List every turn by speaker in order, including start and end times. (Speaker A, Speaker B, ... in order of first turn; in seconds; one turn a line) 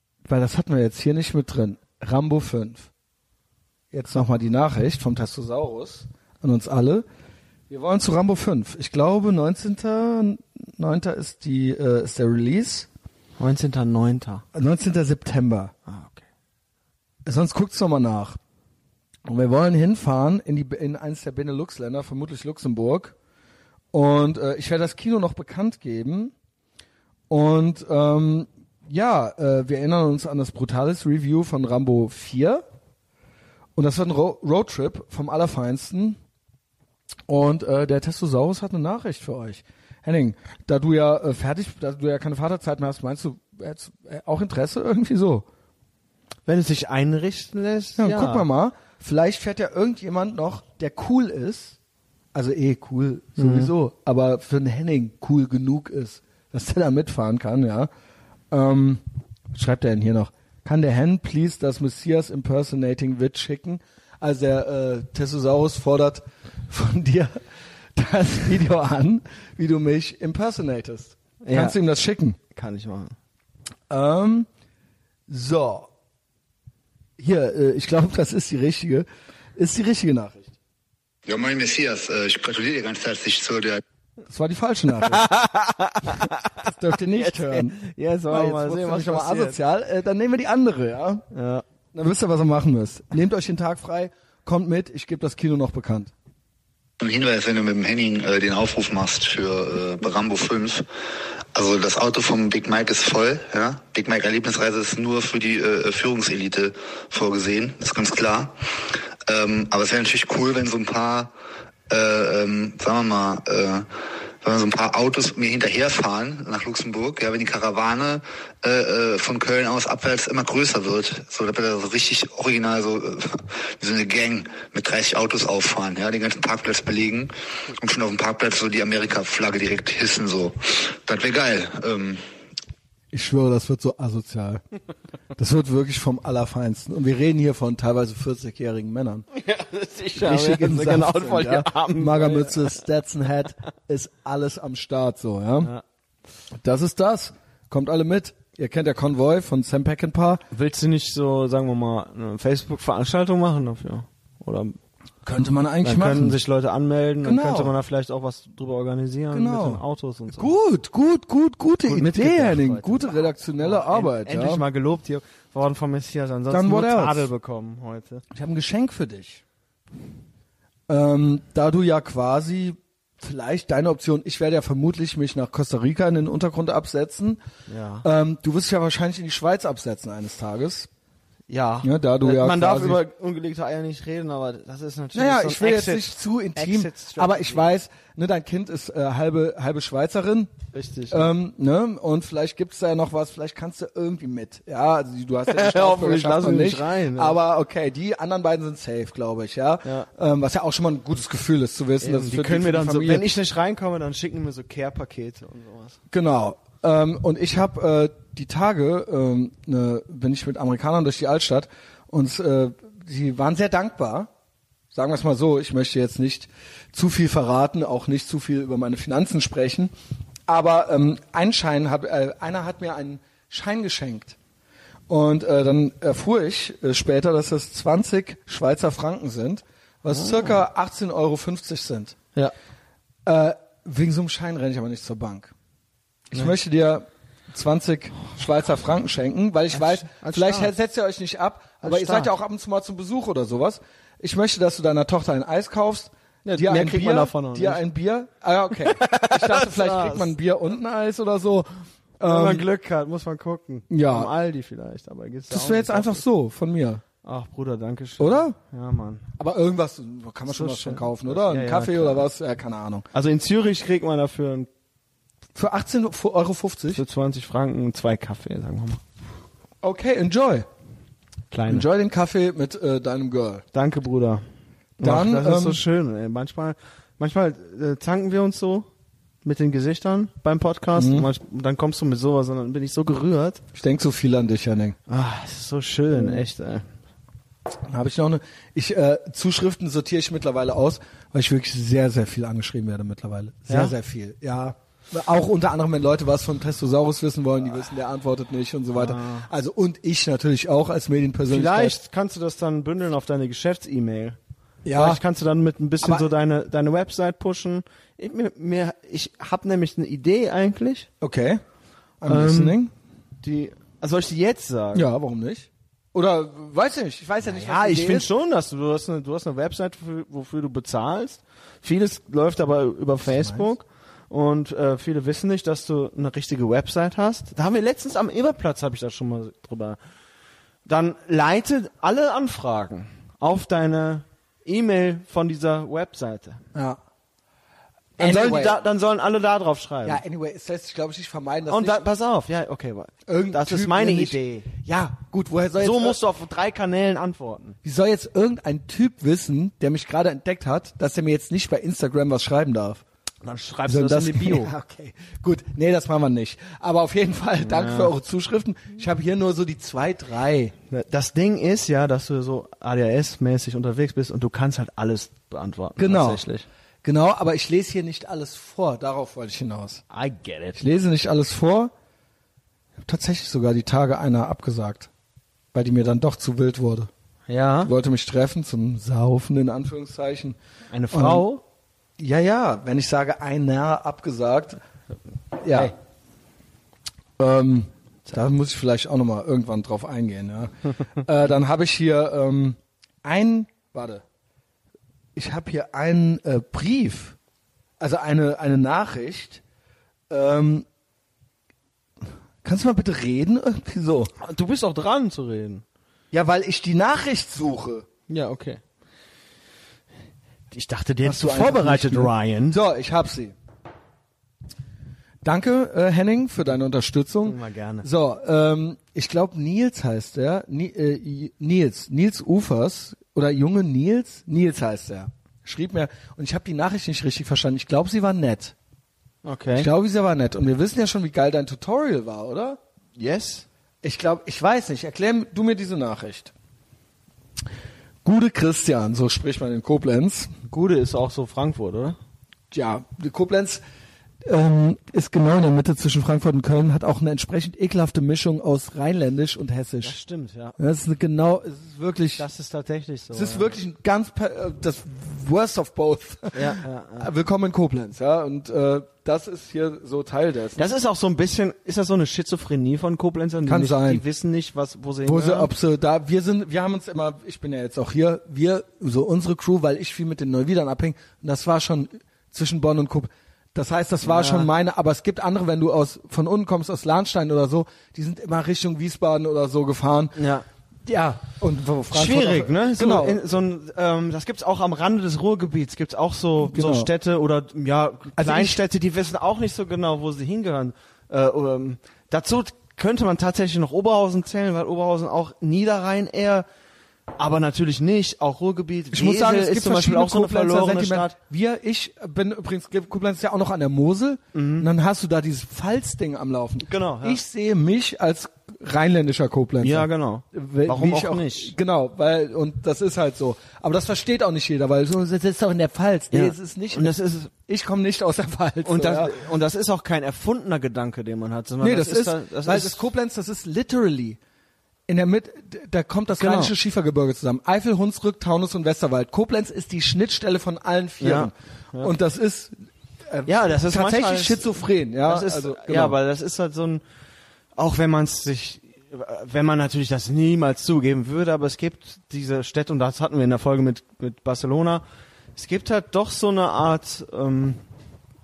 Speaker A: 0.2-2.9
Speaker A: 3.9-7.0
Speaker A: 7.7-12.9
Speaker B: 13.4-14.4
Speaker A: 14.5-15.7
Speaker B: 15.9-16.2
Speaker A: 17.2-18.4
Speaker A: 19.2-23.1
Speaker A: 23.9-26.3
Speaker A: 27.3-32.6
Speaker A: 33.8-36.2
Speaker A: 37.3-45.5
Speaker B: 46.5-48.5
Speaker A: 48.0-51.8
Speaker A: 52.3-57.9
Speaker B: 53.4-53.7
Speaker A: 58.5-67.4
Speaker A: 67.9-72.4
Speaker B: 71.4-71.8
Speaker B: 72.5-73.1
Speaker A: 73.9-74.5
Speaker A: 75.3-75.9
Speaker A: 77.2-80.5
Speaker C: 81.2-83.8
Speaker A: 84.3-85.3
Speaker B: 85.1-89.6
Speaker A: 86.6-91.2
Speaker B: 91.3-91.6
Speaker A: 91.9-96.1
Speaker C: 97.0-100.8
Speaker C: 101.5-111.3
Speaker C: 111.9-113.9
Speaker C: 114.4-132.2
Speaker A: 133.1-134.6
Speaker A: 135.4-139.3
Speaker B: 139.3-142.8
Speaker A: 140.2-145.7
Speaker A: 146.6-150.4
Speaker B: 150.5-154.8
Speaker A: 155.2-156.4
Speaker B: 155.8-160.5
Speaker A: 157.2-157.7
Speaker A: 159.3-164.6
Speaker B: 161.8-168.2
Speaker A: 166.5-167.3
Speaker A: 168.3-169.4
Speaker A: 170.9-177.4
Speaker B: 177.7-178.1
Speaker A: 178.0-180.9
Speaker B: 181.5-187.7
Speaker A: 181.8-183.0
Speaker A: 185.1-190.5
Speaker B: 190.7-191.3
Speaker A: 191.1-203.2
Speaker B: 195.5-197.4
Speaker B: 202.0-206.0
Speaker A: 206.1-214.3
Speaker A: 214.9-219.9
Speaker A: 220.5-224.3
Speaker A: 225.1-232.2
Speaker B: 230.1-230.5
Speaker A: 233.2-235.5
Speaker A: 236.3-252.7
Speaker B: 239.7-240.7
Speaker B: 241.8-242.3
Speaker B: 246.4-247.8
Speaker B: 248.9-250.3
Speaker B: 252.2-256.2
Speaker A: 253.9-254.3
Speaker A: 255.5-257.0
Speaker B: 257.2-259.2
Speaker A: 258.2-258.6
Speaker A: 259.4-263.1
Speaker B: 260.5-262.3
Speaker B: 263.1-264.7
Speaker A: 265.5-267.0
Speaker B: 266.9-269.0
Speaker A: 269.8-270.7
Speaker B: 271.5-271.9
Speaker A: 271.7-273.6
Speaker B: 273.7-274.4
Speaker B: 275.0-278.9
Speaker A: 275.0-275.8
Speaker B: 279.4-283.6
Speaker A: 280.9-281.3
Speaker A: 283.7-285.0
Speaker B: 285.1-286.9
Speaker A: 286.1-286.4
Speaker A: 287.9-302.0
Speaker B: 293.7-293.9
Speaker B: 298.9-299.5
Speaker B: 301.5-304.4
Speaker A: 304.8-305.2
Speaker B: 304.9-311.1
Speaker A: 306.0-306.3
Speaker A: 311.2-311.6
Speaker A: 312.2-312.9
Speaker B: 312.2-312.8
Speaker B: 313.4-315.1
Speaker A: 314.9-318.3
Speaker B: 317.4-330.0
Speaker A: 323.2-323.7
Speaker B: 330.9-336.6
Speaker A: 336.7-337.0
Speaker A: 338.2-338.8
Speaker B: 338.2-340.2
Speaker A: 340.0-342.1
Speaker B: 341.7-344.7
Speaker A: 343.3-346.2
Speaker B: 345.8-347.8
Speaker A: 347.8-353.0
Speaker B: 353.4-354.7
Speaker A: 353.9-360.7
Speaker B: 357.6-358.1
Speaker B: 360.9-366.7
Speaker A: 366.0-366.4
Speaker A: 367.0-370.0
Speaker B: 370.1-370.8
Speaker A: 370.8-371.9
Speaker A: 373.0-375.1
Speaker A: 375.7-377.1
Speaker B: 377.5-377.9
Speaker A: 377.8-380.6
Speaker B: 380.9-381.6
Speaker A: 381.1-381.5
Speaker A: 382.2-384.8
Speaker A: 385.6-385.9
Speaker A: 387.4-394.2
Speaker A: 395.4-397.4
Speaker A: 398.0-399.6
Speaker A: 400.3-400.9
Speaker A: 402.6-404.3
Speaker B: 404.4-405.8
Speaker A: 406.3-408.1
Speaker B: 408.3-408.8
Speaker B: 410.7-412.8
Speaker A: 411.2-413.5
Speaker A: 415.4-428.7
Speaker B: 417.4-418.1
Speaker B: 429.4-429.9
Speaker A: 429.8-432.8
Speaker B: 433.2-433.6
Speaker A: 434.0-436.5
Speaker A: 438.2-440.5
Speaker B: 440.7-442.2
Speaker A: 442.7-443.8
Speaker A: 444.4-450.2
Speaker B: 450.0-450.8
Speaker A: 450.8-452.4
Speaker B: 452.4-453.8
Speaker A: 453.3-460.8
Speaker B: 456.5-457.3
Speaker B: 460.8-465.7
Speaker A: 463.6-464.2
Speaker A: 465.2-480.4
Speaker B: 474.2-474.7
Speaker B: 480.4-480.6
Speaker A: 481.0-483.4
Speaker B: 482.1-496.6
Speaker A: 486.6-487.1
Speaker A: 488.4-488.8
Speaker B: 497.4-501.3
Speaker A: 499.1-519.4
Speaker B: 504.5-504.9
Speaker B: 506.8-507.4
Speaker B: 509.8-511.7
Speaker B: 516.3-517.5
Speaker B: 518.8-523.0
Speaker A: 521.8-524.4
Speaker A: 525.1-536.2
Speaker B: 526.4-526.7
Speaker B: 531.2-532.1
Speaker B: 533.5-537.0
Speaker B: 537.8-545.0
Speaker B: 545.5-547.8